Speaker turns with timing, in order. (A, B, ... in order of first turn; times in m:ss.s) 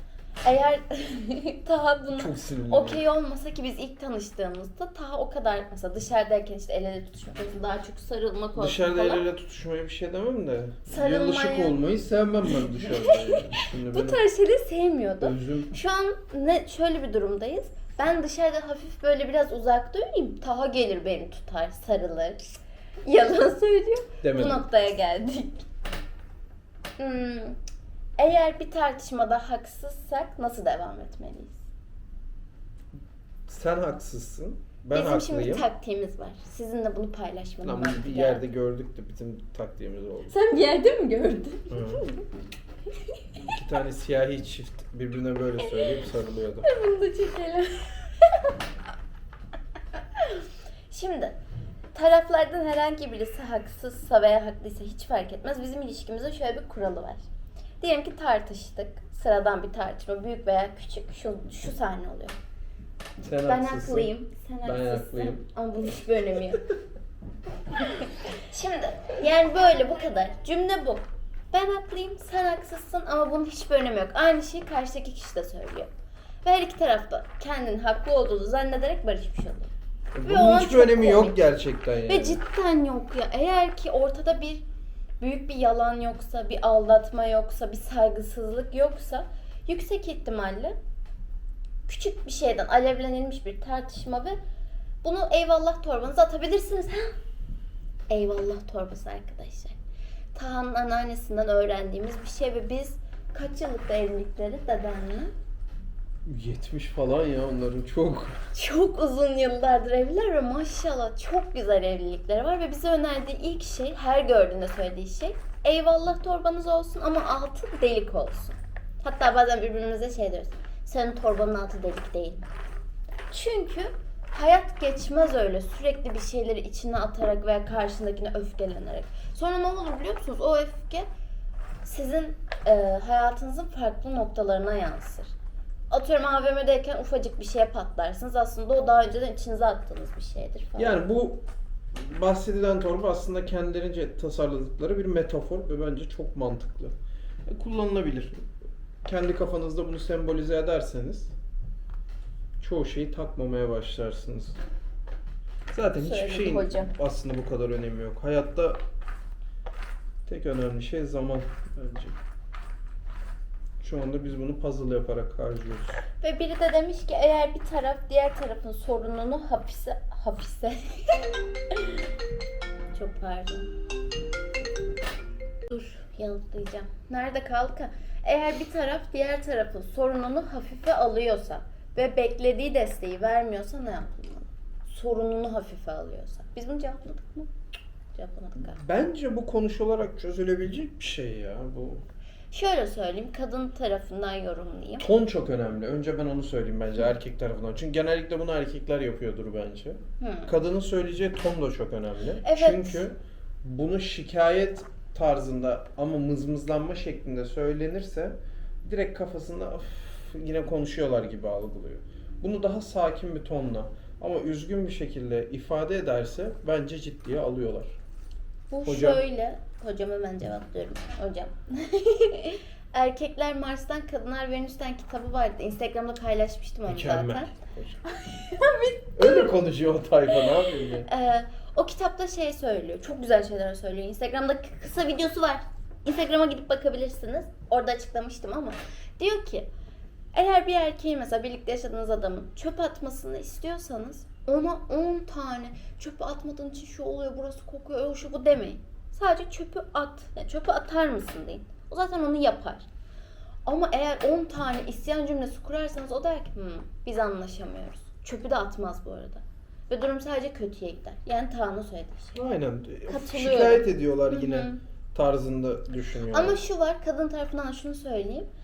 0:00.4-0:09.2 A
0:02.2-0:03.0 B
0:08.6-0:14.2 B
0:10.9-0:11.8 A
0:12.8-0:22.4 A
0:15.2-0:15.7 B
0:23.0-0:25.7 A
0:24.2-0:24.6 B
0:27.0-0:27.6 A
0:28.2-0:31.6 A
0:33.5-0:35.6 B
0:34.9-0:38.4 A
0:37.6-0:40.3 B
0:40.3-0:42.3 A
0:41.7-0:42.0 B
0:43.2-0:43.4 A
0:43.4-0:46.7 B
0:45.6-0:46.0 A
0:46.6-0:48.5 A
0:50.0-0:51.4 A
0:51.9-0:57.2 A
0:57.8-1:02.4 A
1:03.2-1:04.1 B
1:03.4-1:06.6 A
1:04.6-1:05.4 B
1:07.7-1:15.9 A
1:16.4-1:19.7 A
1:20.1-1:22.4 B
1:20.2-1:21.4 A
1:22.0-1:24.6 A
1:25.2-1:30.8 A
1:31.9-1:34.4 A
1:35.0-1:37.1 A
1:38.1-1:39.7 A
1:40.3-1:45.3 A
1:46.2-1:48.4 B
1:48.5-2:02.4 A
2:03.3-2:11.1 A
2:11.8-2:15.3 A
2:15.9-2:21.0 A
2:20.8-2:21.4 B
2:21.9-2:26.9 B
2:27.4-2:28.5 B
2:29.0-2:31.3 B
2:32.6-2:34.6 B
2:35.7-2:38.8 B
2:36.0-2:36.9 A
2:40.2-2:42.2 B
2:43.8-2:46.0 B
2:46.2-2:52.0 A
2:52.9-2:53.7 A
2:55.7-3:07.5 A
3:08.2-3:08.8 A
3:08.7-3:12.0 B
3:12.5-3:15.0 A
3:15.0-3:38.0 B
3:20.2-3:20.5 A
3:22.4-3:23.0 A
3:38.7-3:47.5 A
3:38.8-3:39.2 B
3:46.9-3:48.0 B
3:48.1-3:49.6 A
3:49.2-3:51.1 B
3:50.3-3:59.7 A
4:00.3-4:12.9 A
4:13.6-4:22.4 A
4:22.3-4:26.6 B
4:23.1-4:24.8 A
4:26.3-4:28.5 A